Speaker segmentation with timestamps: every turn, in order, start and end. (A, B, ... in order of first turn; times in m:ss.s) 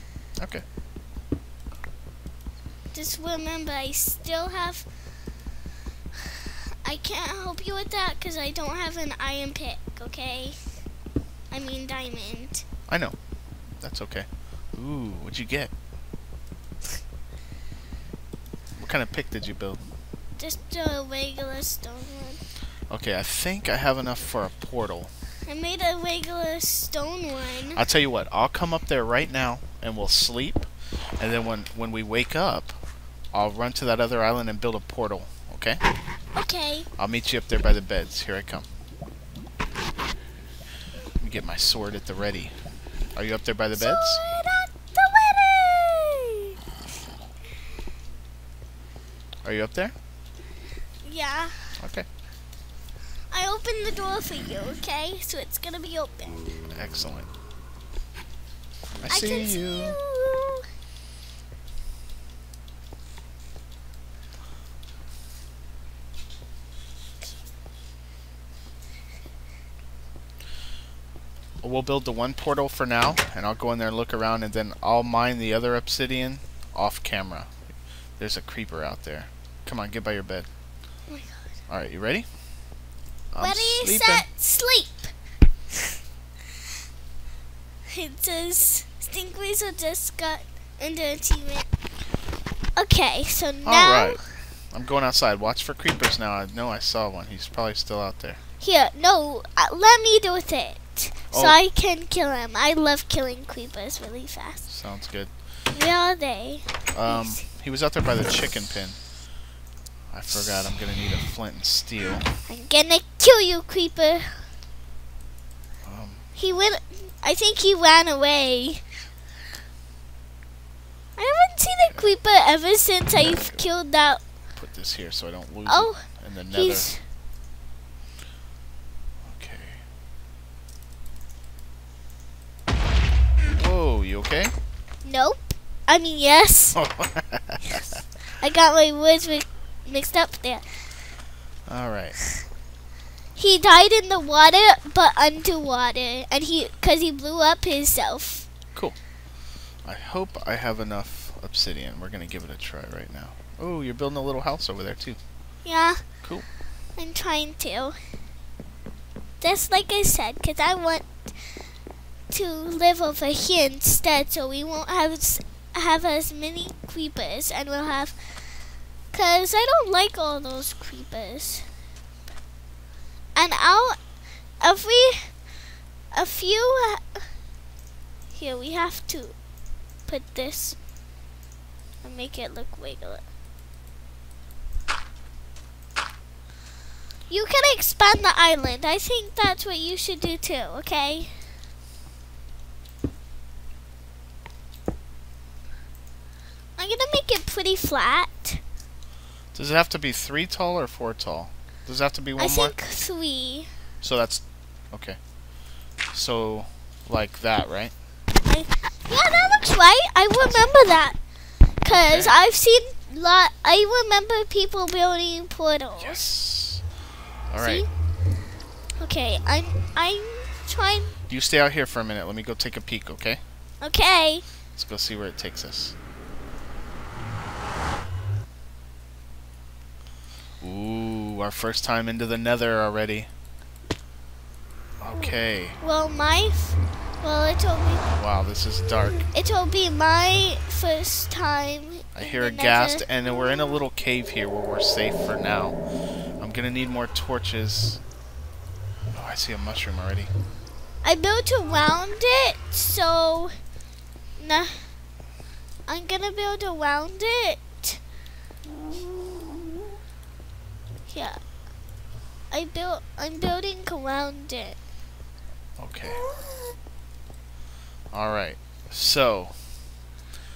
0:00.4-0:00.6 A
0:02.9-0:04.9 B
0:06.2-0:10.6 B
0:11.5-0:12.6 B
0:12.9-0:13.2 A
0:13.8-0:15.7 A
0:18.8-0:19.8 A
0:20.4-0:22.4 B
0:22.9-0:25.1 A
0:25.5-0:27.8 B
0:27.8-0:30.7 A
0:31.2-0:32.8 A
0:33.3-0:35.8 A
0:36.4-0:36.9 B
0:37.0-0:38.7 A
0:41.2-0:42.5 A
0:43.1-0:44.2 A
0:43.7-0:46.5 B
0:49.4-0:49.9 A
0:51.0-0:51.8 B
0:51.8-0:52.1 A
0:53.3-0:56.5 B
0:56.7-0:57.3 A
0:58.9-1:00.0 A
0:59.1-1:00.6 B
1:11.6-1:17.5 A
1:18.2-1:20.5 A
1:21.1-1:21.4 B
1:21.7-1:22.2 A
1:23.3-1:24.2 A
1:23.4-1:25.1 B
1:27.9-1:31.7 B
1:32.8-1:34.2 B
1:33.6-1:34.2 A
1:34.7-1:38.4 A
1:38.6-1:44.6 B
1:41.3-1:41.6 A
1:44.7-1:45.3 A
1:45.7-1:47.4 B
1:46.9-1:49.0 A
1:50.1-1:52.3 A
1:52.5-1:54.4 B
1:55.8-1:56.2 A
1:56.4-1:58.8 B
2:01.2-2:04.2 B
2:03.2-2:03.6 A
2:04.6-2:06.9 A
2:05.6-2:07.0 B
2:09.2-2:09.8 A
2:13.5-2:14.5 A
2:15.0-2:16.8 B
2:16.8-2:18.0 A
2:18.3-2:20.8 B
2:21.6-2:22.2 A
2:23.4-2:28.5 B
2:29.8-2:35.2 A
2:35.6-2:36.0 B
2:37.0-2:38.0 B
2:39.4-2:41.6 B
2:42.3-2:48.6 B
2:49.1-2:51.7 B
2:53.4-2:54.0 B
2:54.6-2:55.3 B
2:56.1-2:57.3 B
2:58.3-2:59.4 B
3:00.1-3:00.8 B
3:02.0-3:03.2 B
3:07.3-3:11.5 B
3:16.8-3:18.6 B
3:19.5-3:22.8 A
3:22.4-3:23.7 B
3:24.0-3:25.2 A
3:26.1-3:27.9 A
3:28.5-3:31.2 B
3:31.8-3:36.3 B
3:31.9-3:32.4 A
3:36.0-3:36.8 A
3:37.5-3:37.9 A
3:37.6-3:37.9 B
3:39.0-3:41.1 B
3:41.3-3:43.4 A
3:43.8-3:44.4 B
3:44.8-3:45.9 A
3:50.6-3:53.3 A
3:55.0-3:55.8 A
3:55.2-3:58.0 B
3:58.1-3:59.2 A
3:59.3-4:03.1 B
4:02.1-4:05.8 A
4:06.4-4:08.0 A
4:09.1-4:10.3 A
4:11.0-4:13.5 B
4:14.4-4:14.9 B
4:15.9-4:18.0 B
4:21.1-4:21.4 B
4:22.5-4:24.8 B
4:25.8-4:26.2 A
4:28.1-4:29.6 A